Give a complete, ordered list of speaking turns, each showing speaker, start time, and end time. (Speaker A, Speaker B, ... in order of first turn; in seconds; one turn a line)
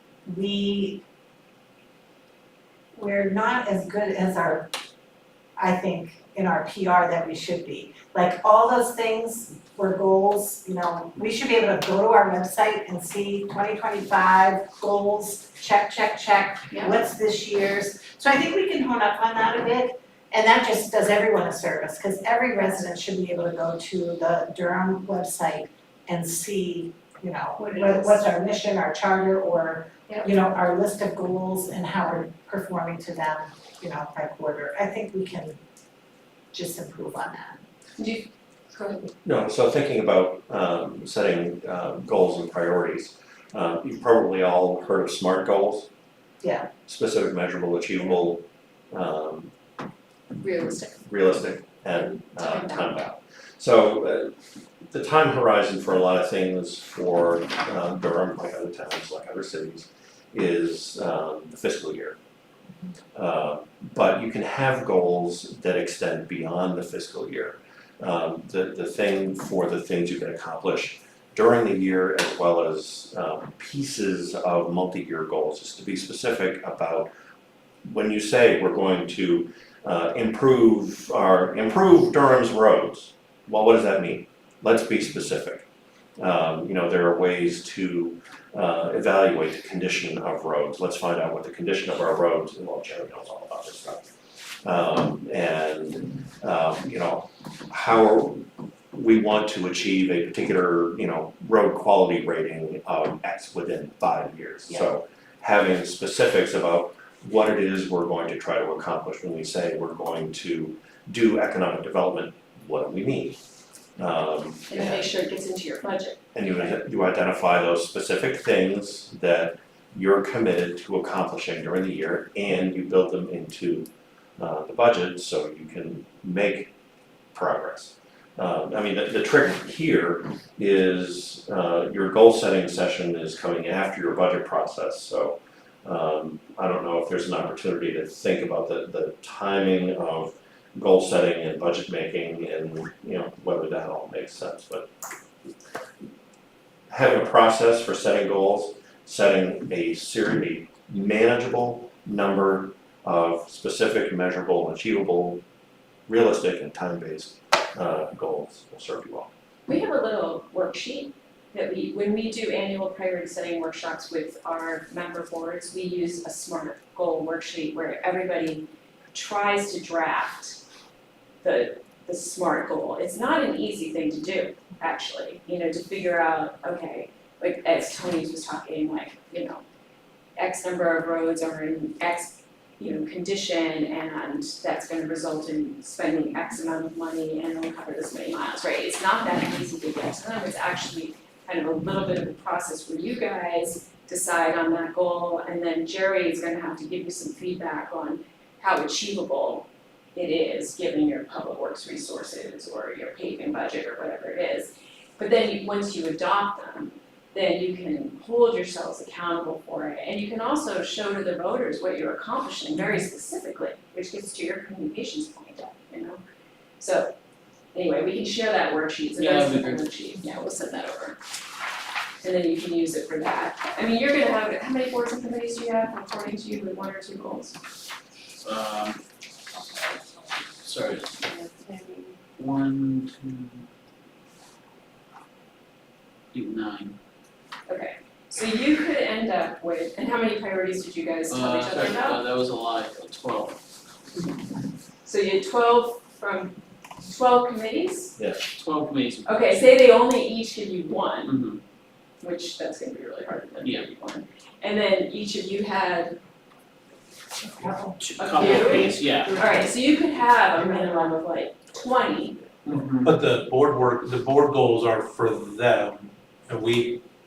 Speaker A: 0.2-1.0
Speaker A: 2.9-4.7
Speaker A: 5.6-35.6
Speaker B: 27.6-28.2
Speaker A: 36.5-37.6
Speaker B: 38.0-39.1
Speaker C: 39.2-45.9
Speaker A: 46.4-46.7
Speaker C: 46.9-49.5
Speaker B: 50.4-51.0
Speaker C: 51.0-54.3
Speaker B: 52.0-52.9
Speaker C: 54.9-62.2
Speaker C: 63.1-77.1
Speaker C: 77.8-85.7
Speaker C: 86.2-94.1
Speaker C: 94.6-113.4
Speaker C: 114.0-115.0
Speaker B: 114.7-116.2
Speaker C: 116.3-126.7
Speaker C: 127.3-144.9
Speaker C: 146.9-155.4
Speaker C: 156.1-159.3
Speaker B: 159.7-170.6
Speaker B: 171.4-179.6
Speaker B: 180.4-216.2
Speaker B: 216.8-217.1
Speaker B: 217.7-221.2
Speaker D: 219.2-219.8
Speaker B: 222.2-227.6
Speaker D: 228.4-229.0
Speaker D: 230.6-231.2
Speaker D: 232.4-233.7
Speaker D: 236.3-237.0
Speaker B: 237.7-242.3
Speaker D: 241.3-243.6
Speaker B: 245.0-248.2
Speaker C: 248.2-248.5
Speaker D: 248.5-249.6
Speaker B: 249.2-251.4
Speaker D: 251.2-251.6
Speaker B: 252.2-256.2
Speaker D: 253.6-253.9
Speaker A: 257.4-258.0
Speaker D: 258.0-259.6
Speaker B: 258.1-262.4
Speaker D: 262.6-263.1
Speaker E: 263.0-267.0